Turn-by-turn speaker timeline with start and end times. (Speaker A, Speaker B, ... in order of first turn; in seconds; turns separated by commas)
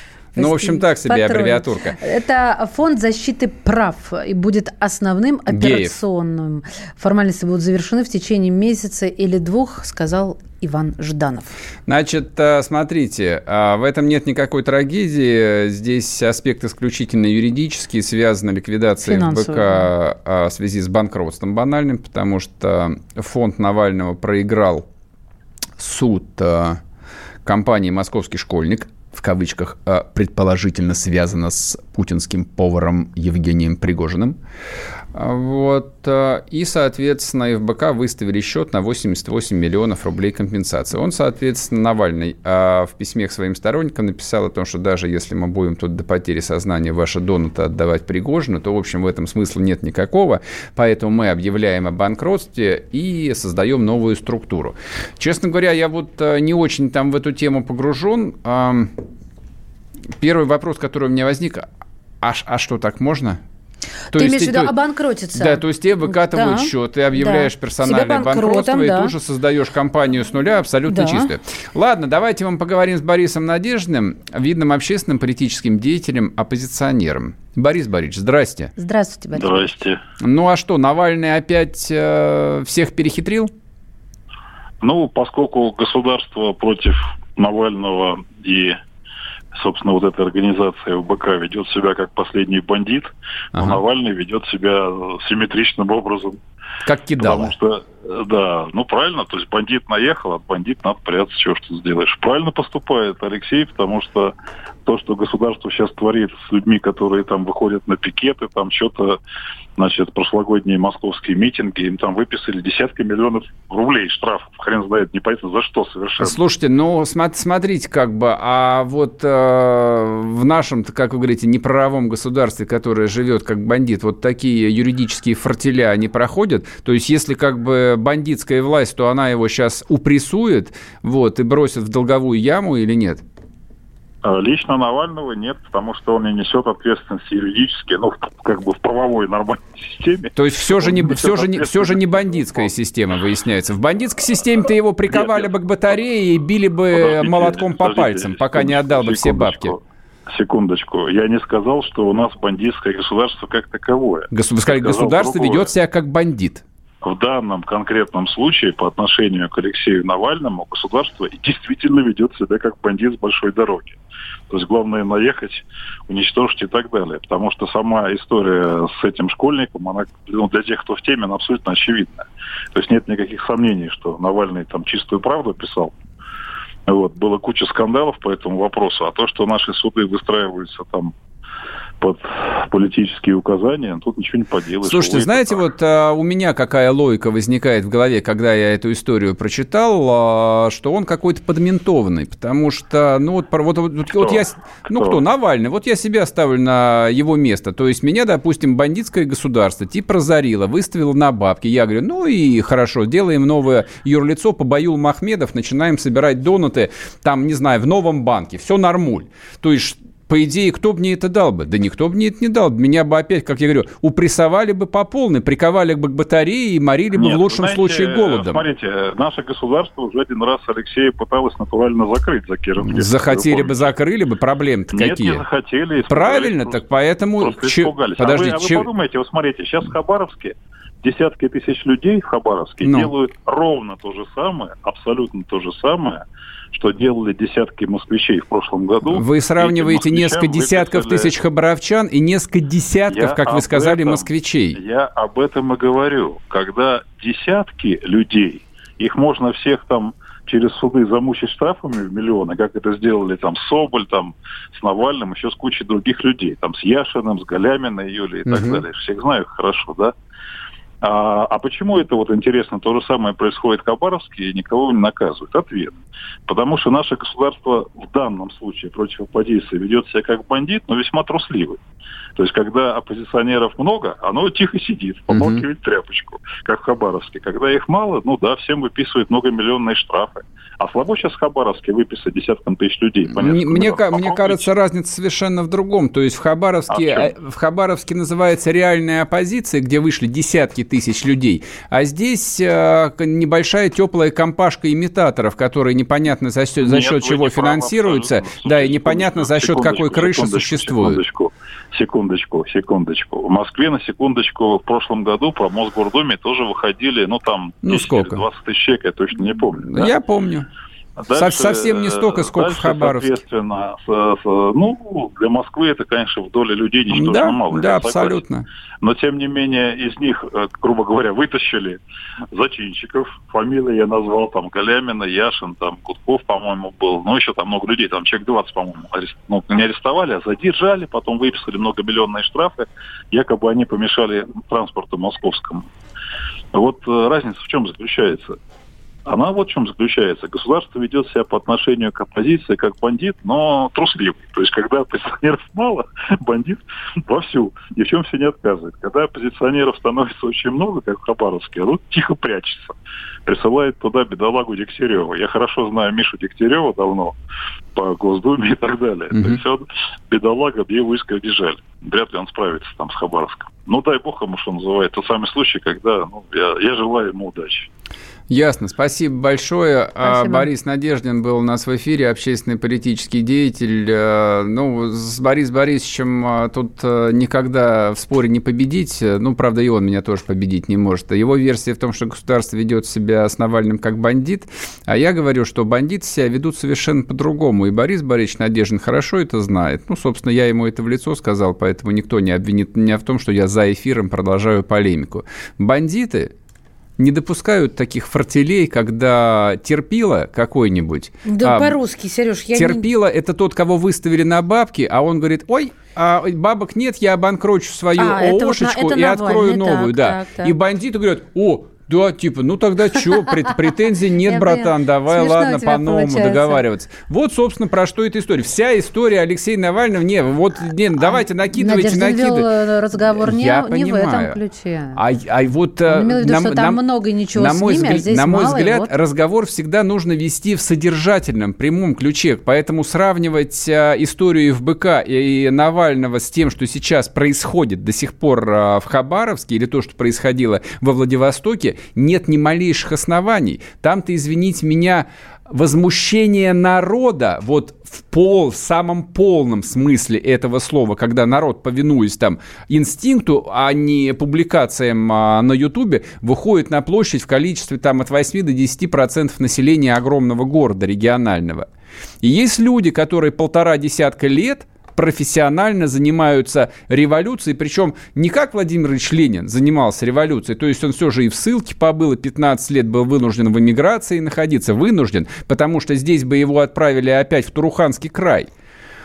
Speaker A: 0.4-2.0, Speaker B: 0.4-11.6, Speaker A: 5.5-6.0, Speaker A: 11.9-24.9, Speaker B: 19.0-19.9, Speaker A: 25.8-26.8, Speaker A: 27.4-34.4, Speaker A: 35.1-58.9, Speaker A: 60.2-61.7, Speaker A: 62.2-63.4, Speaker B: 64.1-69.1, Speaker A: 64.1-64.7, Speaker A: 65.3-78.7, Speaker B: 70.9-71.3, Speaker B: 78.8-79.8, Speaker C: 79.3-80.0, Speaker A: 80.2-83.5, Speaker C: 84.8-88.8, Speaker C: 89.5-96.4, Speaker A: 93.5-93.8, Speaker A: 96.8-97.5, Speaker C: 97.2-104.3, Speaker C: 104.8-109.2, Speaker C: 109.8-116.4, Speaker A: 116.2-133.2, Speaker C: 134.2-142.7, Speaker A: 140.3-149.8, Speaker C: 145.1-145.5, Speaker C: 146.9-155.7, Speaker A: 154.3-156.6, Speaker C: 157.0-164.0, Speaker C: 164.5-175.9, Speaker C: 176.9-181.1, Speaker C: 182.0-185.6, Speaker A: 184.8-218.6, Speaker C: 194.2-195.2, Speaker C: 217.1-223.9, Speaker A: 222.8-225.4, Speaker C: 224.9-226.8, Speaker A: 226.1-228.9, Speaker C: 227.4-241.3, Speaker A: 232.8-233.1, Speaker A: 239.1-244.8, Speaker C: 243.1-260.1, Speaker A: 258.5-258.8, Speaker C: 261.0-271.8, Speaker C: 272.4-284.7, Speaker A: 275.3-275.6, Speaker A: 283.3-301.2, Speaker C: 286.9-287.3, Speaker C: 296.8-310.1, Speaker A: 307.8-308.4, Speaker A: 309.9-310.7, Speaker C: 311.2-318.4, Speaker A: 311.3-313.4, Speaker A: 317.1-318.6, Speaker C: 319.0-322.0, Speaker C: 322.5-335.9, Speaker C: 336.7-338.6, Speaker C: 339.2-352.9, Speaker C: 353.4-357.4, Speaker C: 357.9-367.9, Speaker A: 359.3-359.6, Speaker A: 368.5-396.5, Speaker B: 370.2-370.7, Speaker A: 397.2-402.0, Speaker B: 401.4-403.1, Speaker A: 402.7-424.6, Speaker B: 408.1-410.7, Speaker B: 414.4-416.8, Speaker B: 421.2-425.2, Speaker A: 425.1-427.0, Speaker B: 426.1-429.1, Speaker A: 427.5-461.9, Speaker A: 462.4-478.7